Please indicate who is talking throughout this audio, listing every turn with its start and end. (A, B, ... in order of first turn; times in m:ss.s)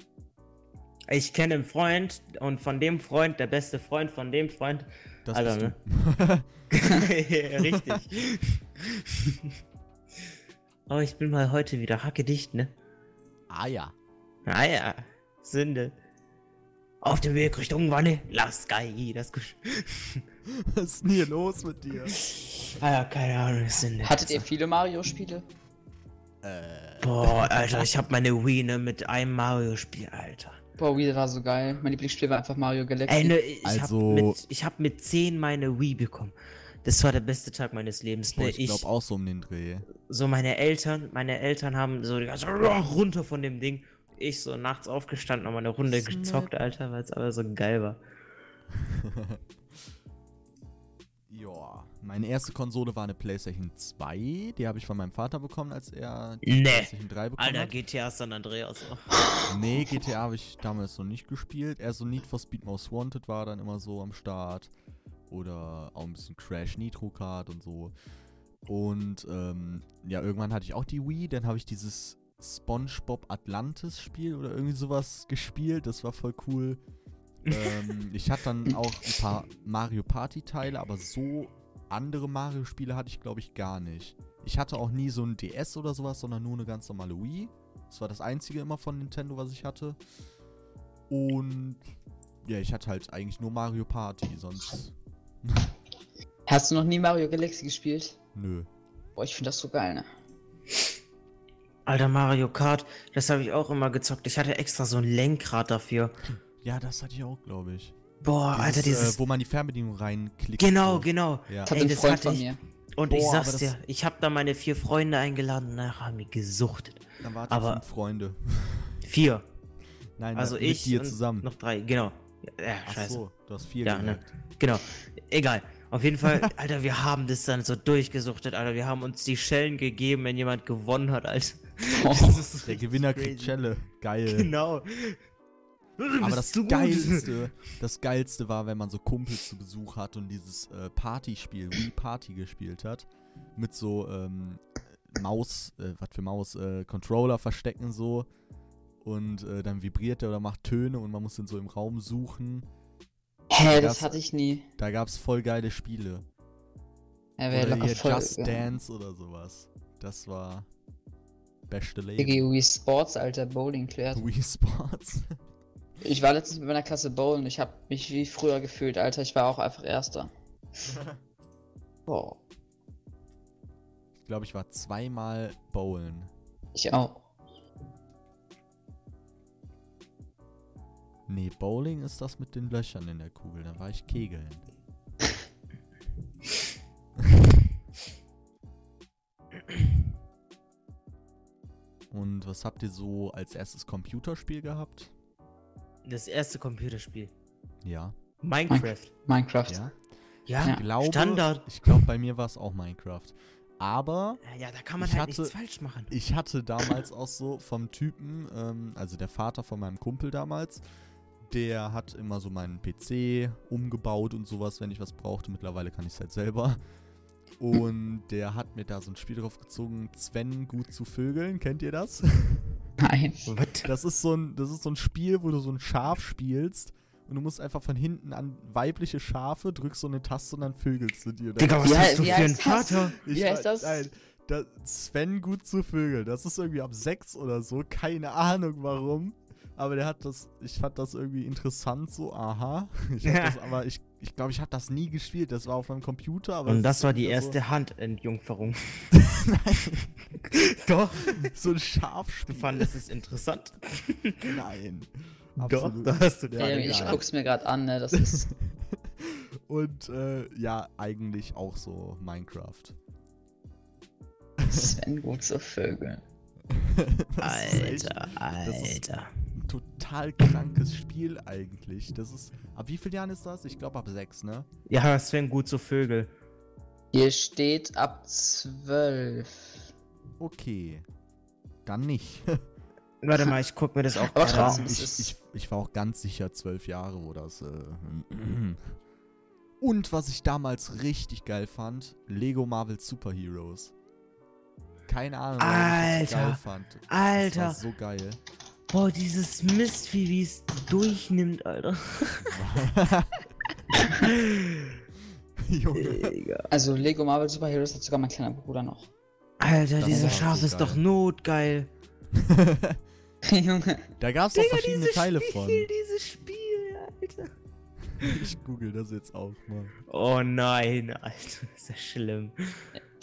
0:01.1-0:05.8 A
0:05.3-0:06.5 B
0:06.7-0:09.5 A
0:07.6-0:08.0 B
0:10.9-0:12.7 A
0:13.5-0:13.9 B
0:14.5-0:15.9 A
0:17.0-0:20.2 A
0:20.5-0:22.2 B
0:22.1-0:24.4 A
0:24.0-0:25.4 C
0:26.4-0:27.9 B
0:27.0-0:30.6 A
0:30.8-0:33.4 C
0:33.1-0:38.8 A
0:33.6-0:34.4 B
0:38.4-0:39.9 B
0:40.0-0:48.0 A
0:45.9-0:46.5 B
0:48.8-0:49.4 B
0:51.3-0:57.8 B
0:56.5-0:59.2 A
0:59.5-1:04.7 B
1:05.3-1:07.9 B
1:08.7-1:16.8 B
1:17.4-1:17.9 A
1:17.5-1:30.0 B
1:31.1-1:31.8 B
1:32.4-1:35.7 B
1:36.5-1:38.2 C
1:38.4-1:38.7 B
1:39.2-1:40.1 C
1:41.9-1:46.1 A
1:46.3-1:48.0 B
1:48.2-1:49.2 A
1:48.5-1:51.7 B
1:50.6-1:52.5 A
1:51.7-1:52.6 C
1:53.0-1:57.8 A
1:53.1-1:53.7 B
1:57.2-1:59.0 B
1:59.0-1:59.4 A
2:00.2-2:01.5 B
2:00.4-2:03.2 A
2:02.8-2:04.3 B
2:03.8-2:13.6 A
2:12.0-2:12.4 C
2:12.6-2:14.5 B
2:14.3-2:15.2 A
2:16.0-2:17.3 A
2:16.2-2:28.3 B
2:29.0-2:32.7 B
2:33.5-2:34.7 C
2:33.7-2:34.1 B
2:34.8-2:36.2 B
2:37.4-2:38.6 C
2:37.5-2:40.7 B
2:41.7-2:42.4 B
2:42.2-2:44.3 C
2:44.1-2:45.4 B
2:46.0-2:50.3 C
2:50.9-2:51.2 B
2:52.1-2:52.4 C
2:54.2-2:56.3 B
2:56.8-2:57.2 C
3:01.3-3:04.6 B
3:12.1-3:15.1 B
3:16.0-3:17.3 A
3:17.8-3:18.2 B
3:18.4-3:19.1 A
3:18.7-3:19.9 C
3:19.7-3:19.9 B
3:20.5-3:21.6 A
3:20.6-3:24.4 B
3:24.4-3:26.1 A
3:25.0-3:25.5 B
3:26.1-3:30.8 B
3:31.4-3:36.8 B
3:37.6-3:42.8 B
3:43.0-3:43.5 C
3:43.5-3:43.9 A
3:43.8-3:52.6 B
3:51.6-3:53.2 A
3:51.8-3:54.0 C
3:53.2-4:07.6 B
4:03.2-4:03.6 A
4:06.7-4:09.2 A
4:09.1-4:10.1 B
4:10.4-4:11.5 A
4:11.2-4:12.9 B
4:12.5-4:14.6 A
4:14.5-4:17.2 B
4:15.6-4:17.2 A
4:16.6-4:18.5 C
4:18.1-4:23.0 B
4:24.6-4:24.9 B
4:24.7-4:26.2 C
4:26.7-4:29.0 B
4:27.4-4:29.3 A
4:29.6-4:34.7 B
4:34.9-4:36.3 A
4:37.1-4:39.6 C
4:40.4-4:41.0 B
4:41.9-4:42.6 B
4:43.2-4:44.9 A
4:44.3-4:45.4 C
4:44.5-4:49.0 B
4:49.8-4:53.9 B
4:55.1-4:58.4 B
4:55.6-4:57.8 A
4:58.9-5:02.6 A
5:02.4-5:03.4 B
5:04.1-5:05.0 A
5:05.6-5:06.3 B
5:06.0-5:06.7 A
5:06.7-5:09.1 C
5:09.6-5:11.9 A
5:10.0-5:11.0 B
5:10.1-5:10.4 C
5:12.3-5:13.0 B
5:13.5-5:14.1 C
5:14.2-5:15.9 B
5:14.6-5:17.5 A
5:18.2-5:19.9 B
5:20.1-5:22.9 A